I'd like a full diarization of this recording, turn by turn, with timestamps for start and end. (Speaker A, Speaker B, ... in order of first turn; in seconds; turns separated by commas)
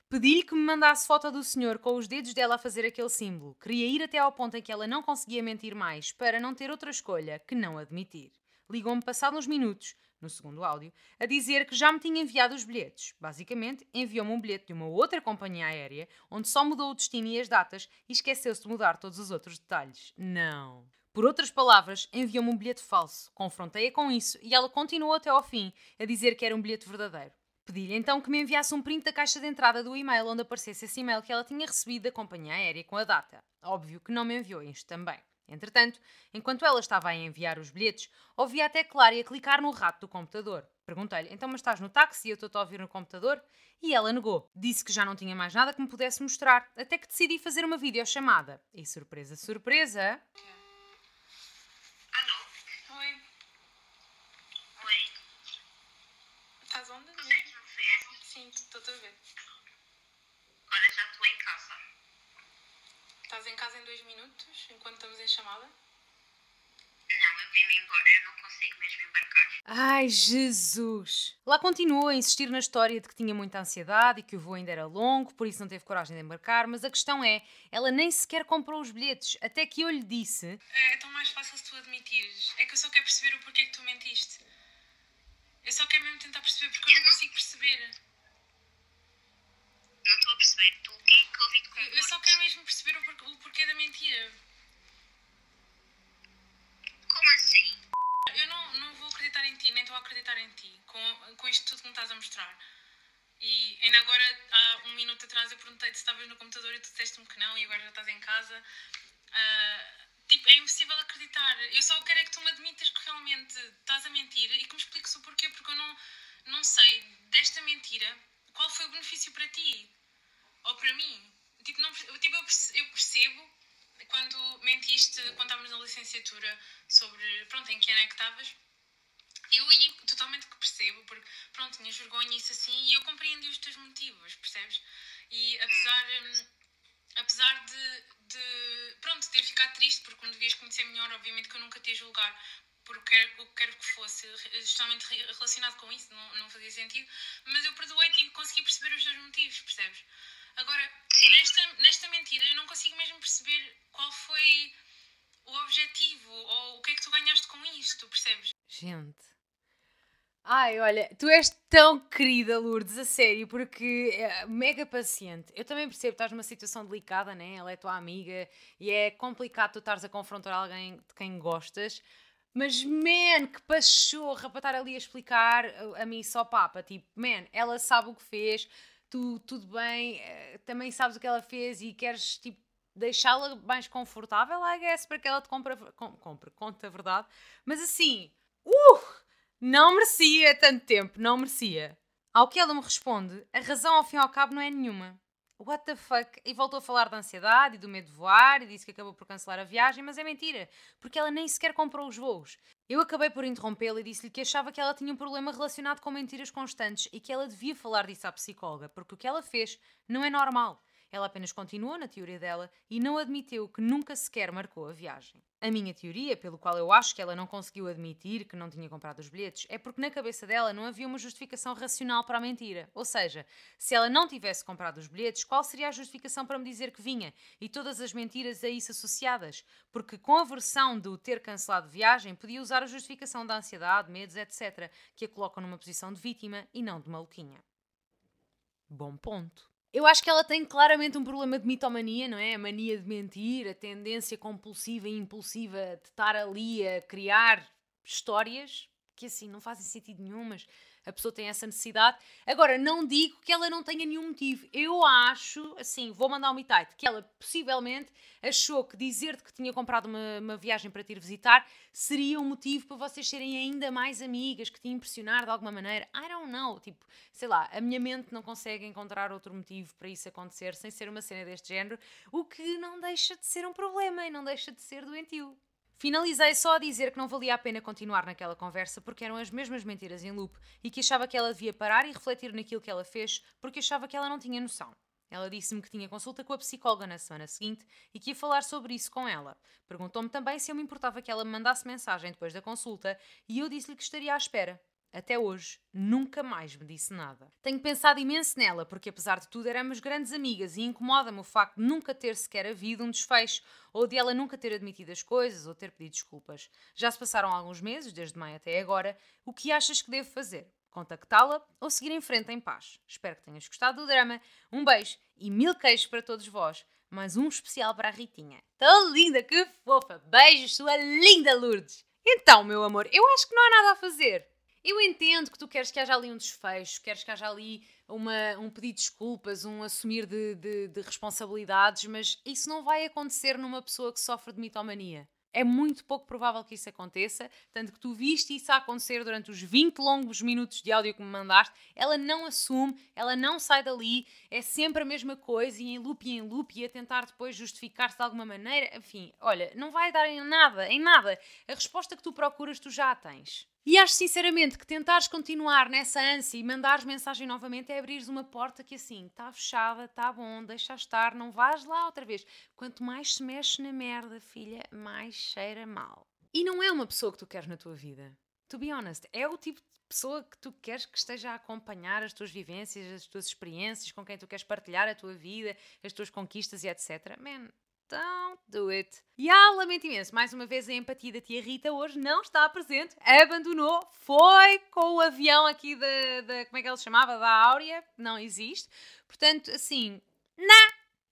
Speaker A: 0.1-50.2, Speaker B: 52.1-52.5, Speaker C: 52.9-53.2, Speaker B: 54.8-55.1, Speaker C: 56.7-57.5, Speaker B: 57.2-58.1, Speaker C: 58.1-59.2, Speaker B: 60.7-61.8, Speaker C: 63.3-65.7, Speaker B: 67.1-69.6, Speaker A: 69.7-80.6, Speaker C: 80.7-84.4, Speaker C: 85.6-88.0, Speaker B: 86.9-87.2, Speaker B: 90.0-92.3, Speaker C: 91.8-94.4, Speaker B: 97.1-97.8, Speaker C: 98.3-102.6, Speaker C: 103.4-108.6, Speaker C: 109.3-119.9, Speaker C: 120.6-128.6, Speaker C: 129.5-136.5, Speaker C: 137.2-154.8, Speaker B: 151.1-151.4, Speaker C: 155.4-158.5, Speaker A: 158.7-159.3, Speaker A: 160.4-172.0, Speaker A: 172.5-237.6, Speaker A: 238.9-390.9